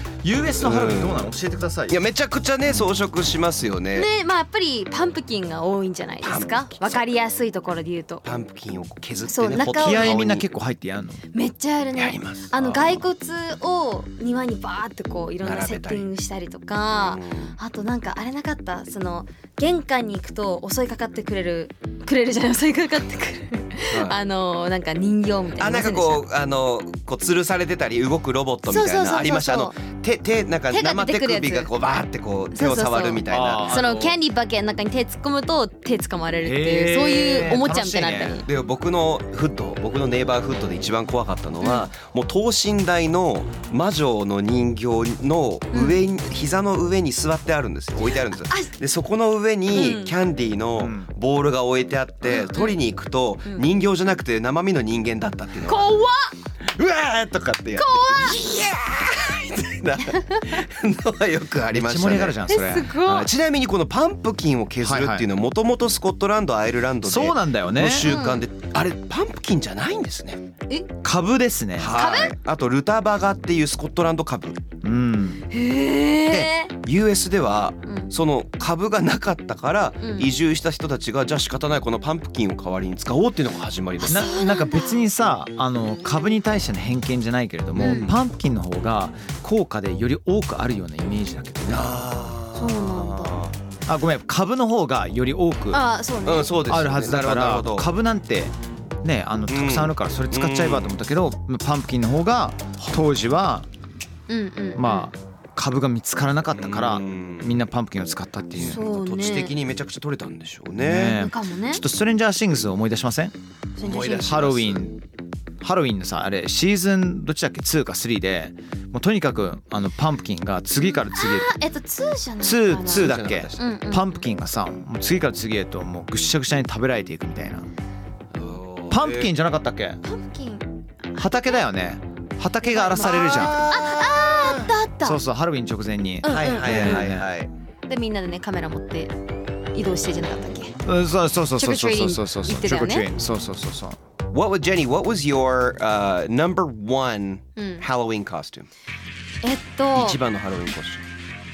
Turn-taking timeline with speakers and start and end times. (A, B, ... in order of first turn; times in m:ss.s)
0:00.2-0:02.0 A
0:00.6-0:01.3 B
0:01.9-0:04.1 B
0:03.9-0:08.2 C
0:06.2-0:07.0 B
0:08.2-0:10.4 B
0:09.3-0:10.3 C
0:09.6-0:11.2 A
0:11.3-0:26.2 C
0:11.9-0:13.0 B
0:15.4-0:16.1 B
0:16.9-0:17.5 B
0:23.9-0:24.2 B
0:25.6-0:33.7 B
0:28.7-0:29.8 C
0:30.7-0:31.7 C
0:32.5-0:38.5 C
0:33.3-0:34.2 A
0:36.4-0:38.4 A
0:38.4-0:56.0 B
0:41.6-0:41.9 C
0:45.7-0:46.0 C
0:48.0-0:48.7 C
0:49.7-0:50.1 C
0:50.8-0:51.1 A
0:52.2-0:52.8 C
0:55.6-0:56.3 C
0:56.6-1:02.4 B
0:57.7-0:58.5 C
1:00.2-1:00.5 C
1:01.7-1:02.9 A
1:02.5-1:03.3 C
1:03.0-1:10.4 B
1:04.8-1:05.3 A
1:07.0-1:08.1 A
1:08.0-1:08.4 C
1:11.0-1:12.0 A
1:11.8-1:14.6 B
1:11.9-1:12.4 C
1:14.8-1:15.4 A
1:15.5-1:16.7 C
1:16.3-1:24.3 B
1:17.8-1:18.1 C
1:20.0-1:20.3 C
1:24.0-1:25.1 C
1:24.0-1:31.9 A
1:27.7-1:28.2 B
1:27.8-1:28.1 C
1:31.6-1:33.5 B
1:32.5-1:33.4 C
1:33.9-1:35.8 A
1:35.7-1:36.6 C
1:36.2-1:37.9 B
1:36.7-1:43.7 A
1:39.5-1:40.9 B
1:44.3-1:45.1 C
1:44.7-1:48.8 A
1:46.5-1:47.6 B
1:48.6-1:51.2 B
1:48.6-1:49.6 C
1:50.8-1:53.3 A
1:51.1-1:51.8 C
1:53.8-1:54.4 C
1:53.8-1:54.9 B
1:54.2-1:55.0 A
1:55.6-2:01.5 A
2:00.9-2:04.2 C
2:02.4-2:07.7 A
2:02.9-2:03.7 B
2:08.3-2:09.3 B
2:08.9-2:10.0 A
2:10.0-2:11.3 C
2:11.2-2:13.7 A
2:12.6-2:15.2 C
2:12.9-2:14.7 B
2:15.0-2:17.3 A
2:16.2-2:17.2 C
2:16.3-2:17.5 B
2:17.9-2:19.1 C
2:19.7-2:20.8 C
2:20.8-2:24.0 A
2:21.6-2:23.1 C
2:24.3-2:28.7 B
2:27.6-2:27.8 C
2:29.4-2:30.2 C
2:29.9-2:31.0 B